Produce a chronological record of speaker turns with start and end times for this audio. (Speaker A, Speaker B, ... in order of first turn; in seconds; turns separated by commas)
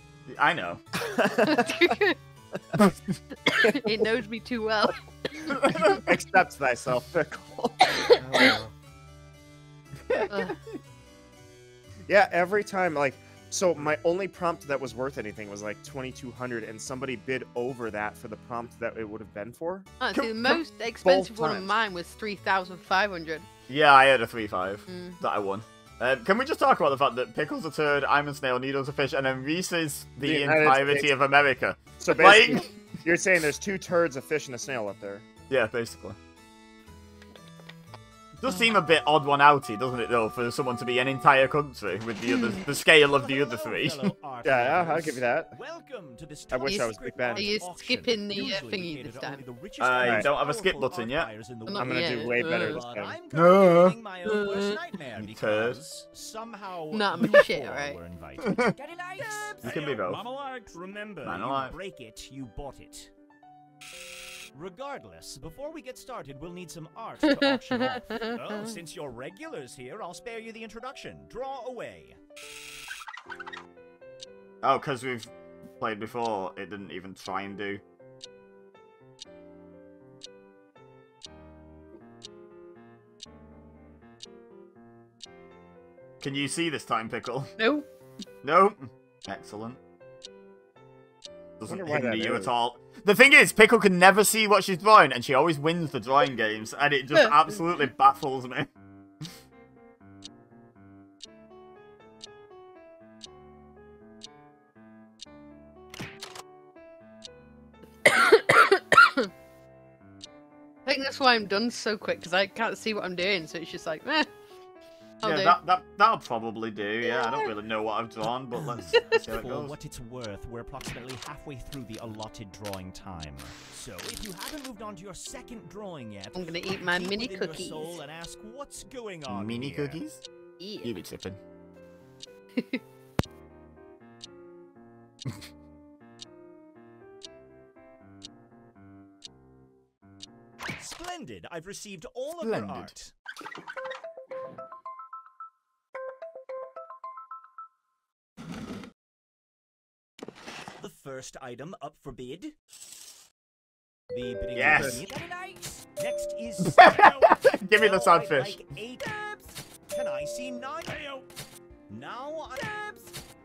Speaker A: 0.3-1.7, Speaker B: 1.4-2.2, Speaker B: 3.5-5.6, Speaker A: 5.5-6.0, Speaker C: 6.1-7.9, Speaker A: 8.2-8.7, Speaker A: 10.1-10.5, Speaker B: 10.3-10.6, Speaker C: 12.1-19.9, Speaker B: 20.0-23.5, Speaker A: 20.1-20.6, Speaker C: 21.0-21.7, Speaker A: 23.7-32.7, Speaker B: 24.9-25.2, Speaker C: 30.2-31.1, Speaker C: 32.0-35.2, Speaker A: 35.5-36.2, Speaker A: 38.4-44.1, Speaker B: 42.3-42.6, Speaker D: 43.1-63.1, Speaker C: 44.4-45.5, Speaker C: 46.5-47.5, Speaker B: 46.6-49.4, Speaker A: 49.8-51.3, Speaker C: 50.0-50.3, Speaker B: 51.7-52.8, Speaker C: 51.8-53.2, Speaker A: 53.3-54.0, Speaker B: 54.3-54.8, Speaker A: 55.2-55.8, Speaker B: 56.9-58.0, Speaker A: 58.5-58.7, Speaker A: 59.6-60.2, Speaker A: 61.2-61.8, Speaker D: 64.5-72.2, Speaker B: 67.3-68.7, Speaker A: 74.6-77.8, Speaker A: 86.2-87.6, Speaker B: 87.6-87.9, Speaker A: 88.4-89.8, Speaker A: 91.6-98.7, Speaker C: 91.7-92.5, Speaker B: 108.1-109.3, Speaker B: 110.9-114.3, Speaker B: 115.2-115.6, Speaker A: 115.2-119.8, Speaker B: 117.0-117.5, Speaker D: 118.6-130.0, Speaker B: 126.3-128.0, Speaker A: 129.3-130.2, Speaker B: 130.6-131.0, Speaker A: 130.8-131.4, Speaker D: 140.8-143.1, Speaker A: 142.4-143.0, Speaker D: 150.8-152.6, Speaker D: 154.1-161.2, Speaker A: 154.6-155.0, Speaker C: 154.7-155.0, Speaker A: 156.6-158.6, Speaker D: 161.9-163.1